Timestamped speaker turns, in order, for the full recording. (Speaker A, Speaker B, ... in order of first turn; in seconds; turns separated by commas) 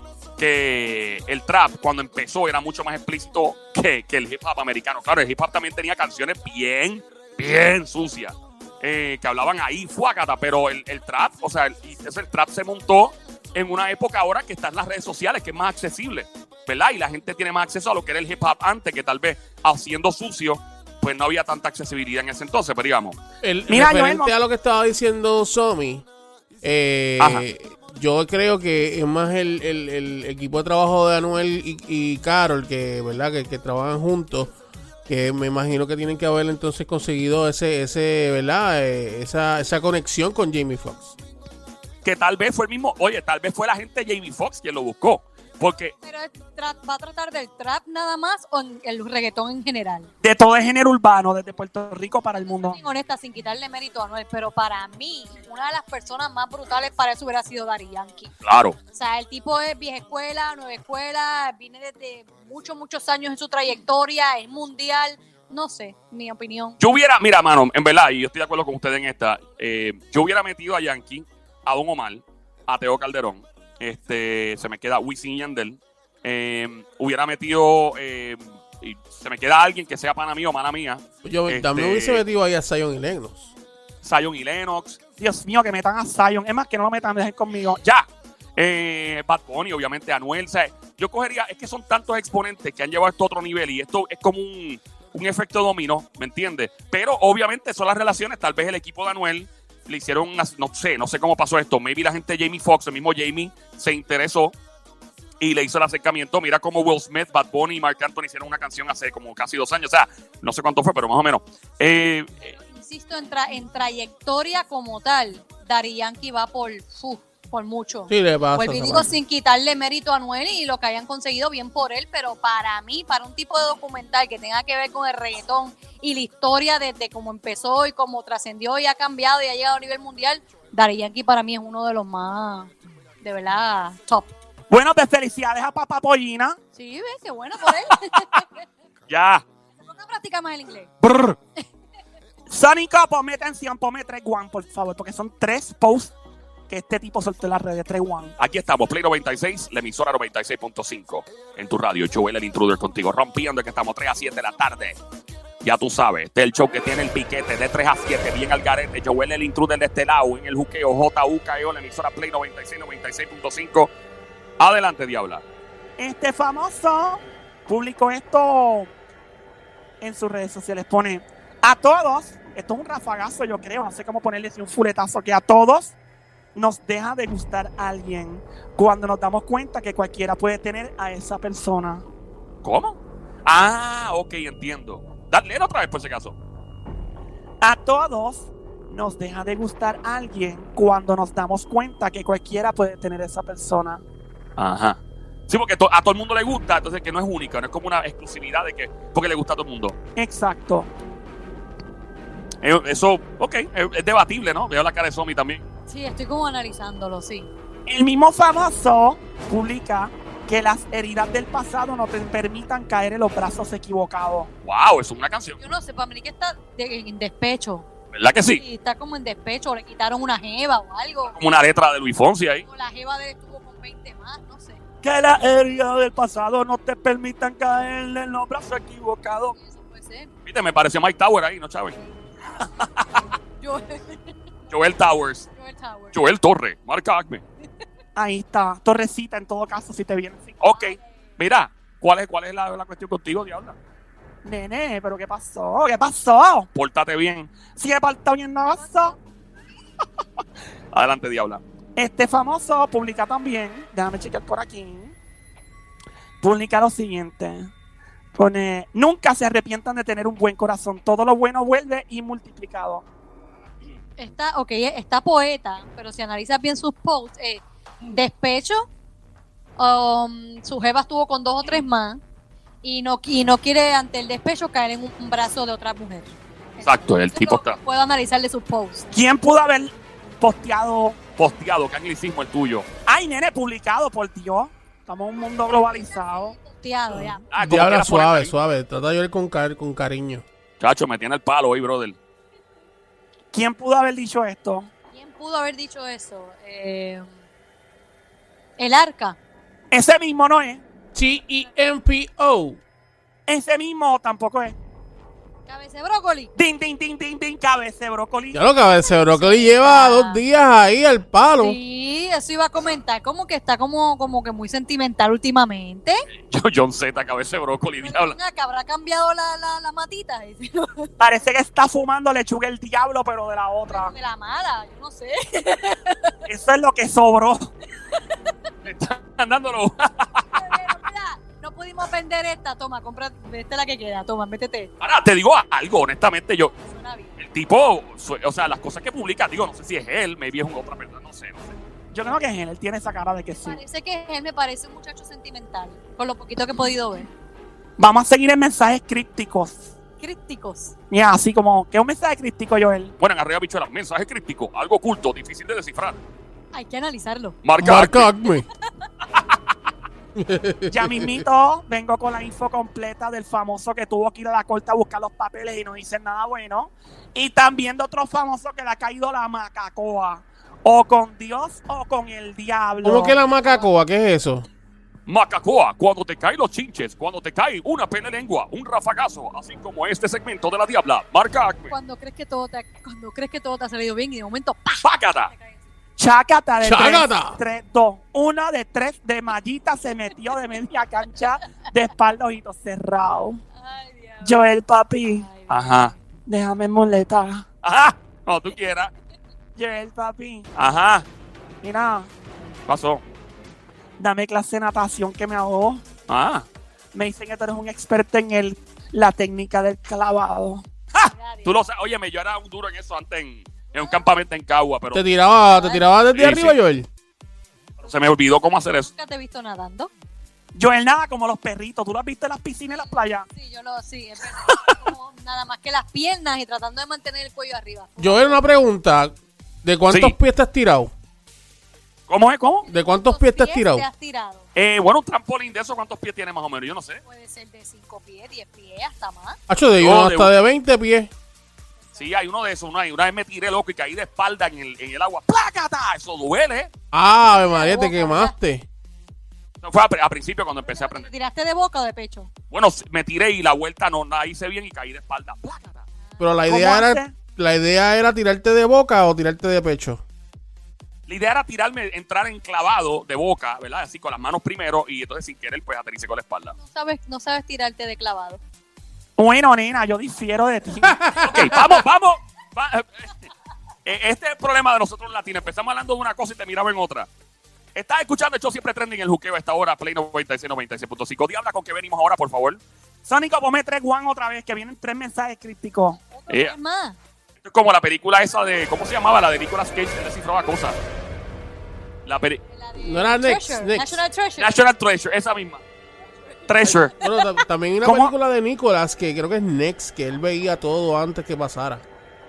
Speaker A: 0.4-23.2, Speaker B: 23.4-26.0, Speaker C: 23.7-24.3, Speaker B: 26.6-34.5, Speaker A: 27.2-27.4, Speaker B: 35.1-41.1, Speaker A: 42.0-45.9, Speaker D: 46.0-50.1, Speaker C: 50.2-52.8, Speaker D: 52.5-58.3, Speaker A: 58.4-58.8, Speaker D: 58.9-66.8, Speaker A: 66.8-82.2, Speaker B: 81.2-83.5, Speaker A: 84.0-85.0, Speaker C: 85.2-87.8, Speaker A: 87.8-104.5, Speaker A: 105.4-112.5, Speaker D: 112.5-132.7, Speaker B: 118.1-119.1, Speaker D: 133.2-134.3, Speaker C: 134.7-136.6, Speaker D: 136.7-138.5, Speaker A: 138.2-138.4, Speaker A: 139.1-139.4, Speaker D: 139.8-140.9, Speaker A: 141.0-141.4, Speaker C: 142.5-146.1, Speaker C: 146.7-148.3, Speaker A: 148.4-155.0, Speaker A: 155.6-163.9, Speaker A: 164.6-165.4, Speaker C: 166.0-168.9, Speaker C: 170.0-175.9, Speaker C: 176.5-182.0, Speaker A: 182.6-186.3, Speaker C: 187.6-194.0, Speaker A: 194.6-199.9, Speaker C: 200.2-200.9, Speaker A: 202.6-205.6, Speaker D: 205.9-207.5, Speaker C: 207.9-214.5, Speaker A: 214.6-215.6, Speaker D: 215.6-217.9, Speaker A: 218.1-218.6, Speaker D: 218.5-221.3, Speaker A: 221.3-222.7, Speaker D: 222.7-224.8, Speaker C: 225.0-229.5, Speaker D: 229.5-230.3, Speaker A: 230.4-232.0, Speaker D: 233.6-234.7, Speaker A: 234.7-235.5, Speaker D: 235.6-236.2, Speaker A: 236.1-237.4, Speaker C: 238.2-240.7, Speaker A: 240.6-243.8, Speaker D: 240.8-241.0, Speaker C: 244.4-246.7, Speaker A: 246.7-247.6, Speaker C: 247.7-249.1, Speaker D: 248.7-249.2, Speaker A: 250.9-251.6, Speaker C: 251.9-255.1, Speaker C: 256.4-257.7, Speaker C: 258.3-263.0, Speaker D: 264.2-268.8, Speaker D: 269.8-272.2, Speaker D: 272.8-279.1, Speaker A: 276.8-277.8, Speaker C: 279.1-281.2, Speaker A: 281.4-282.9, Speaker C: 283.1-286.6, Speaker D: 286.3-287.5, Speaker B: 287.1-290.4, Speaker A: 287.5-288.5, Speaker A: 290.8-292.2, Speaker C: 293.5-294.9, Speaker D: 295.1-297.3, Speaker D: 298.8-299.4, Speaker C: 299.9-300.8, Speaker B: 301.1-302.8, Speaker C: 303.5-304.7, Speaker D: 305.7-306.5, Speaker C: 306.6-308.6, Speaker B: 308.5-311.8, Speaker D: 309.0-310.4, Speaker D: 311.6-316.2, Speaker A: 316.4-318.3, Speaker D: 318.0-321.1, Speaker C: 321.2-324.1, Speaker D: 323.9-326.3, Speaker C: 326.5-327.7, Speaker D: 328.1-328.4, Speaker A: 328.8-330.6, Speaker D: 330.5-334.9, Speaker A: 335.0-336.7, Speaker D: 336.7-337.4, Speaker A: 337.4-341.8, Speaker C: 342.1-343.8, Speaker D: 343.5-347.3, Speaker C: 348.0-349.9, Speaker D: 350.2-350.9, Speaker C: 351.1-353.1, Speaker A: 353.2-356.2, Speaker D: 356.7-357.6, Speaker A: 357.6-358.3, Speaker B: 357.8-358.6, Speaker B: 360.4-361.4, Speaker C: 360.9-373.4, Speaker B: 373.0-374.7, Speaker D: 373.5-373.9, Speaker A: 375.3-381.9, Speaker D: 381.9-385.9, Speaker A: 385.0-385.5, Speaker C: 386.2-393.6, Speaker B: 386.8-387.6, Speaker D: 393.7-394.7, Speaker C: 394.4-395.5, Speaker D: 395.4-396.2, Speaker A: 395.7-396.1, Speaker C: 396.5-397.6, Speaker A: 397.8-399.1, Speaker C: 399.8-400.7, Speaker A: 400.8-401.3, Speaker C: 401.8-402.3, Speaker A: 402.9-403.2, Speaker C: 404.2-406.0, Speaker A: 406.3-406.7, Speaker C: 407.1-410.8, Speaker A: 411.1-415.2, Speaker D: 411.1-411.9, Speaker D: 413.9-414.3, Speaker B: 415.1-417.1, Speaker D: 415.7-416.1, Speaker A: 416.3-416.8, Speaker A: 418.0-419.1, Speaker D: 419.1-420.1, Speaker C: 420.7-423.4, Speaker D: 422.9-428.6, Speaker B: 428.2-431.1, Speaker A: 430.1-430.4, Speaker A: 432.3-432.8, Speaker D: 432.9-434.6, Speaker B: 432.9-434.1, Speaker A: 434.7-437.2, Speaker D: 437.2-439.6, Speaker B: 439.7-441.3, Speaker A: 440.0-440.5, Speaker A: 442.2-446.9, Speaker B: 447.1-448.9, Speaker D: 447.4-448.6, Speaker A: 449.8-451.3, Speaker D: 450.8-452.5, Speaker A: 452.7-456.0, Speaker D: 456.2-456.6, Speaker B: 456.4-460.2, Speaker C: 456.7-457.3, Speaker A: 461.3-466.8, Speaker D: 466.7-468.6, Speaker C: 469.4-471.2, Speaker B: 471.0-472.0, Speaker A: 471.4-473.3, Speaker A: 474.1-477.3, Speaker A: 477.9-482.8, Speaker C: 483.2-486.2, Speaker D: 486.3-487.2, Speaker A: 486.5-486.7, Speaker A: 487.6-491.0, Speaker A: 492.2-492.6, Speaker D: 492.7-494.8, Speaker B: 493.0-494.2, Speaker A: 494.6-495.8, Speaker D: 496.4-497.6, Speaker A: 496.7-497.1, Speaker B: 497.2-502.0, Speaker C: 498.0-498.3